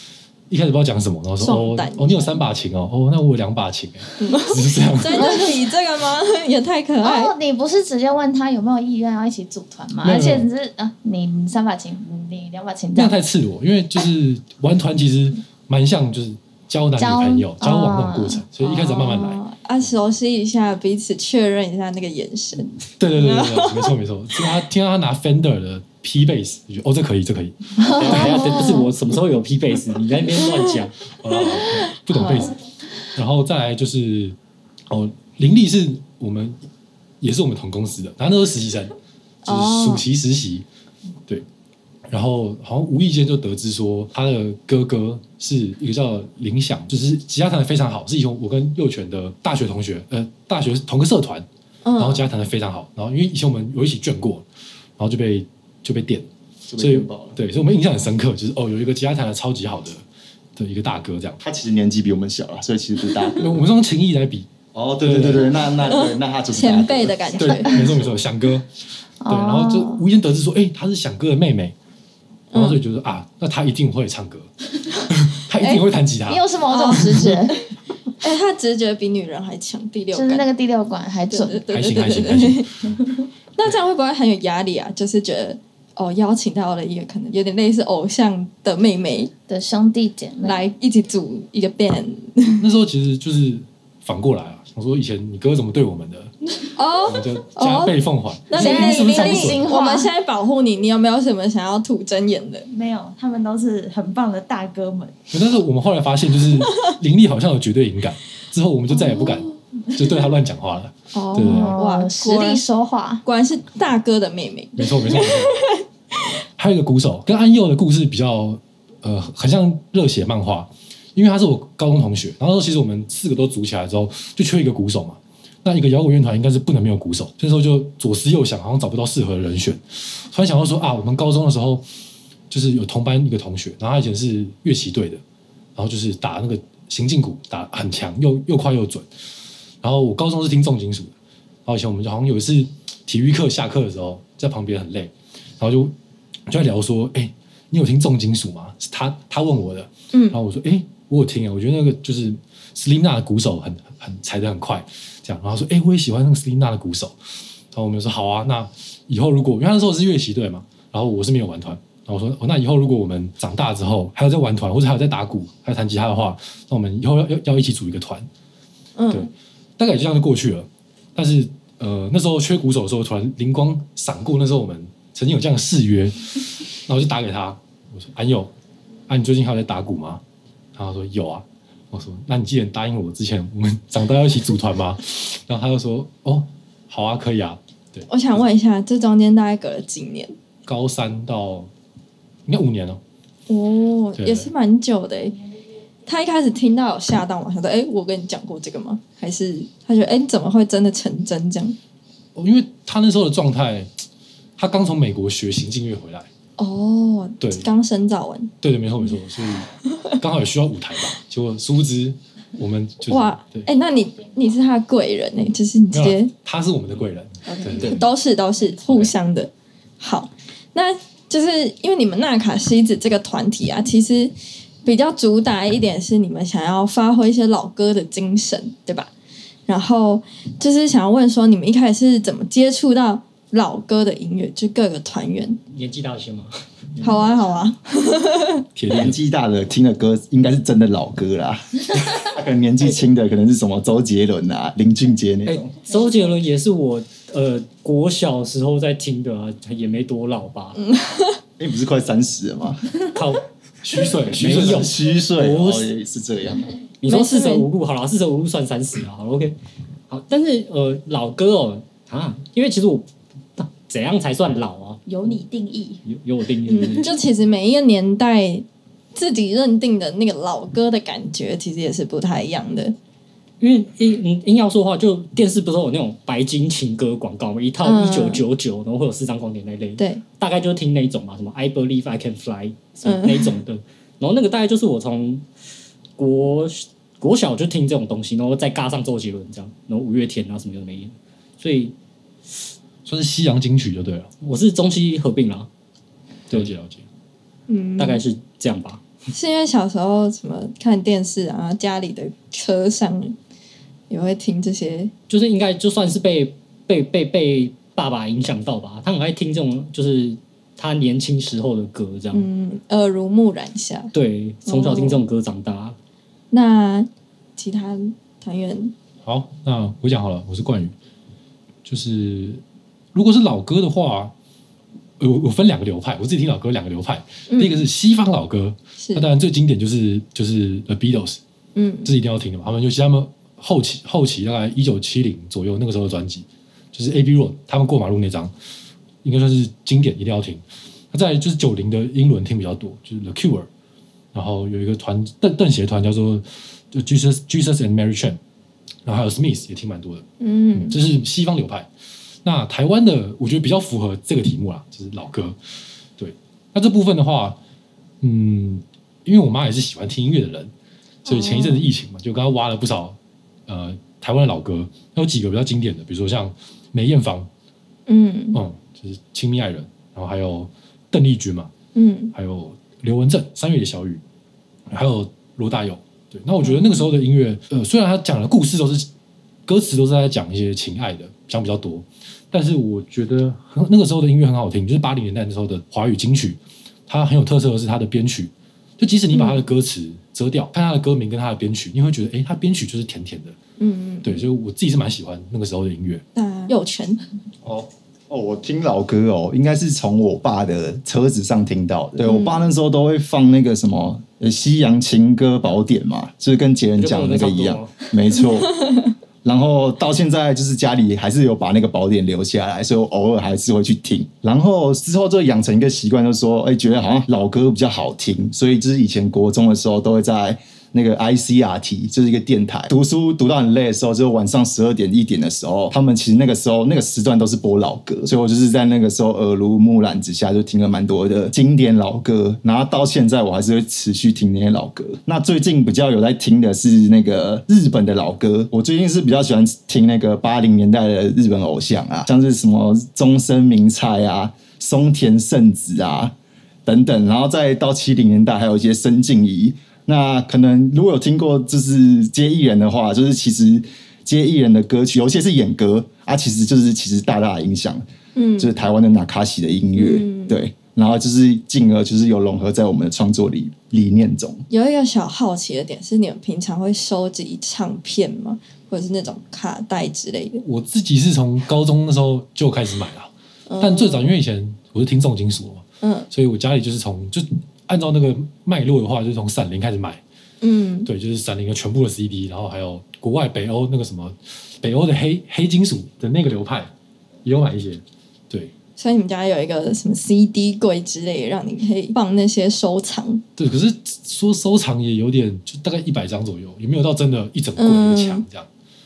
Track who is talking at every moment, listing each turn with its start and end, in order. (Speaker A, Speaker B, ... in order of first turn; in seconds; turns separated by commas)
Speaker A: 0.5-5.5, Speaker B: 1.4-2.3, Speaker B: 4.2-7.3, Speaker C: 7.0-13.2, Speaker A: 10.0-10.5, Speaker A: 12.9-19.4, Speaker C: 17.0-18.4, Speaker B: 18.6-24.6, Speaker A: 23.0-28.5, Speaker B: 27.8-28.9, Speaker D: 28.0-31.0, Speaker A: 31.2-32.5, Speaker B: 31.3-32.5, Speaker A: 33.1-34.4, Speaker A: 34.9-36.6, Speaker A: 37.2-39.0, Speaker B: 39.5-40.0, Speaker A: 39.5-40.7, Speaker A: 42.1-51.5, Speaker B: 51.8-52.3, Speaker A: 52.0-54.5, Speaker A: 55.0-60.0, Speaker E: 56.7-57.4, Speaker A: 60.5-61.4, Speaker E: 61.4-63.4, Speaker A: 63.4-64.5, Speaker E: 64.7-67.4, Speaker A: 65.0-65.5, Speaker B: 65.8-67.8, Speaker A: 67.4-68.7, Speaker C: 67.5-67.9, Speaker C: 69.2-70.0, Speaker A: 69.3-71.7, Speaker B: 72.5-72.8, Speaker A: 72.5-74.5, Speaker A: 75.1-77.4, Speaker B: 75.5-75.8, Speaker C: 76.3-77.6, Speaker B: 76.7-77.3, Speaker B: 78.2-80.5, Speaker C: 80.1-81.6, Speaker B: 81.3-82.7, Speaker A: 81.7-82.7, Speaker B: 83.6-89.3, Speaker C: 89.5-90.6, Speaker B: 90.4-92.7, Speaker A: 92.6-96.3, Speaker B: 96.7-102.7, Speaker A: 97.0-99.7, Speaker C: 98.5-100.1, Speaker F: 102.7-105.2, Speaker A: 105.3-111.7, Speaker B: 108.9-109.5, Speaker B: 111.1-112.6, Speaker C: 111.4-113.2, Speaker B: 113.2-115.8, Speaker A: 114.8-115.6, Speaker A: 116.6-131.8, Speaker A: 132.5-135.2, Speaker A: 135.8-139.1, Speaker A: 139.8-141.1, Speaker A: 141.7-145.9, Speaker A: 146.5-157.2, Speaker B: 150.1-150.4, Speaker A: 157.7-168.3, Speaker B: 169.0-169.3, Speaker A: 169.1-178.5, Speaker A: 179.1-180.2, Speaker A: 180.7-188.1, Speaker B: 188.1-190.3, Speaker A: 190.7-191.7, Speaker A: 192.5-193.0, Speaker B: 193.5-195.4, Speaker A: 194.2-194.5, Speaker B: 196.1-201.8, Speaker A: 202.3-203.9, Speaker A: 204.6-206.3, Speaker B: 206.6-208.5, Speaker A: 207.4-207.7, Speaker A: 208.6-213.7, Speaker B: 213.1-216.3, Speaker A: 215.9-218.1, Speaker B: 217.5-224.3, Speaker A: 218.9-219.1, Speaker B: 224.8-229.1, Speaker B: 229.7-235.6, Speaker D: 235.7-237.6, Speaker B: 237.0-238.6, Speaker A: 238.8-239.2, Speaker E: 238.9-245.7, Speaker D: 245.5-250.8, Speaker B: 250.8-251.4, Speaker E: 251.6-252.8, Speaker D: 253.1-253.4, Speaker A: 253.8-255.0, Speaker D: 254.0-255.9, Speaker E: 254.5-256.7, Speaker D: 257.0-259.6, Speaker B: 257.1-257.6, Speaker D: 260.1-265.0, Speaker F: 265.0-266.0, Speaker D: 266.1-267.1, Speaker B: 266.7-272.9, Speaker D: 273.6-285.5, Speaker B: 277.8-278.4, Speaker B: 280.0-280.2, Speaker B: 283.0-283.5, Speaker D: 286.2-292.0, Speaker A: 293.1-294.3, Speaker D: 294.4-295.7, Speaker A: 296.5-297.0, Speaker B: 297.7-298.2, Speaker D: 298.0-299.0, Speaker B: 299.3-303.4, Speaker B: 304.1-305.1, Speaker D: 305.3-312.5, Speaker B: 312.3-314.1, Speaker D: 314.1-316.0, Speaker B: 314.6-315.2, Speaker B: 316.5-318.9, Speaker A: 319.2-320.9, Speaker A: 321.9-322.6, Speaker A: 323.1-324.3, Speaker A: 325.2-331.4, Speaker B: 327.5-327.9, Speaker B: 329.0-329.3, Speaker B: 331.8-332.1, Speaker A: 332.1-338.5, Speaker A: 339.2-343.7, Speaker A: 344.3-348.4, Speaker A: 349.1-351.9, Speaker B: 350.4-351.0, Speaker A: 352.4-355.6, Speaker A: 356.2-357.6, Speaker A: 358.2-360.7, Speaker A: 361.2-367.5, Speaker B: 361.2-361.9, Speaker B: 368.1-368.6, Speaker A: 368.5-371.7, Speaker B: 371.9-372.3, Speaker A: 372.3-374.2, Speaker A: 374.9-379.1, Speaker B: 376.6-377.1, Speaker A: 379.6-393.6, Speaker B: 389.3-389.6, Speaker B: 393.8-394.5, Speaker A: 394.2-396.2, Speaker B: 396.4-397.2, Speaker E: 397.6-446.3, Speaker B: 402.2-402.6, Speaker D: 407.0-408.1, Speaker B: 408.8-409.1, Speaker E: 446.9-458.0, Speaker B: 458.4-458.7, Speaker E: 458.6-464.6, Speaker B: 459.9-460.6, Speaker B: 464.7-470.6, Speaker A: 470.6-480.2, Speaker B: 473.7-474.3, Speaker B: 476.0-476.3, Speaker B: 480.6-481.1, Speaker A: 481.1-486.9, Speaker A: 487.4-488.7, Speaker B: 489.0-493.4, Speaker A: 493.6-498.7, Speaker B: 497.8-498.4